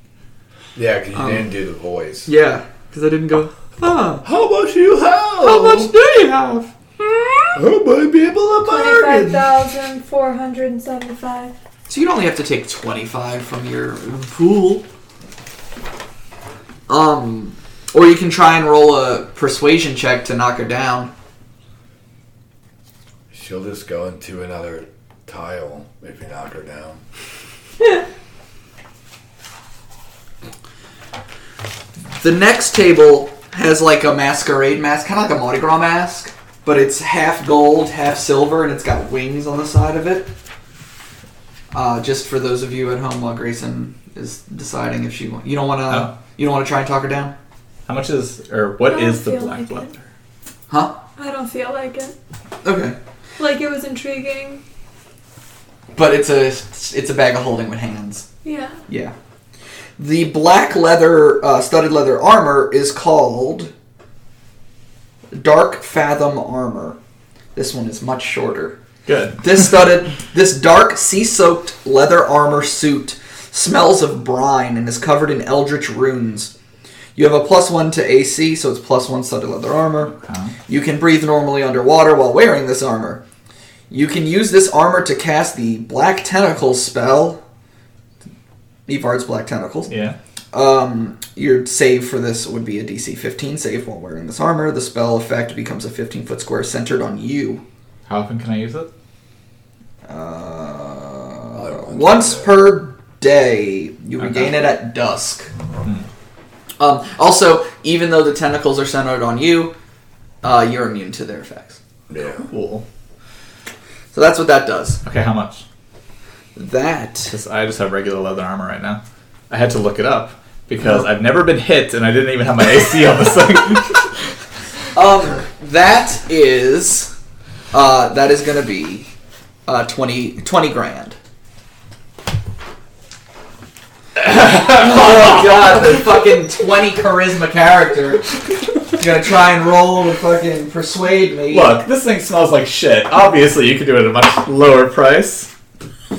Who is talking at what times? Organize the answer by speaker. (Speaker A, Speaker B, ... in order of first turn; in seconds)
Speaker A: 0.7-2.3, 4.2-5.9, 7.5-9.5, 23.3-27.0, 101.5-102.6, 112.1-112.5
Speaker B: 1.1-1.5, 2.2-4.2, 5.4-6.7, 11.9-14.9, 16.9-21.1, 32.2-40.3, 41.7-47.3, 50.7-51.0, 52.6-53.0, 55.9-58.2, 58.9-59.1, 60.0-63.7, 65.3-67.0, 67.5-68.8, 69.4-76.5, 77.2-80.1, 80.7-83.2, 83.9-87.4, 88.9-89.9, 90.5-97.6, 100.0-105.5, 106.8-109.7, 110.4-111.8, 114.1-115.0, 116.5-117.3, 124.9-127.1, 127.7-129.1, 129.7-131.2, 134.3-138.2, 138.9-141.8
Speaker C: 7.0-7.6, 8.6-11.5, 48.9-49.9, 51.2-52.1, 53.4-54.6, 58.4-58.8
Speaker D: 47.9-50.0, 69.0-69.6, 80.2-80.5, 89.9-90.2, 98.1-98.9, 104.2-104.6, 112.2-112.8, 115.0-115.6, 117.3-124.2, 141.5-145.5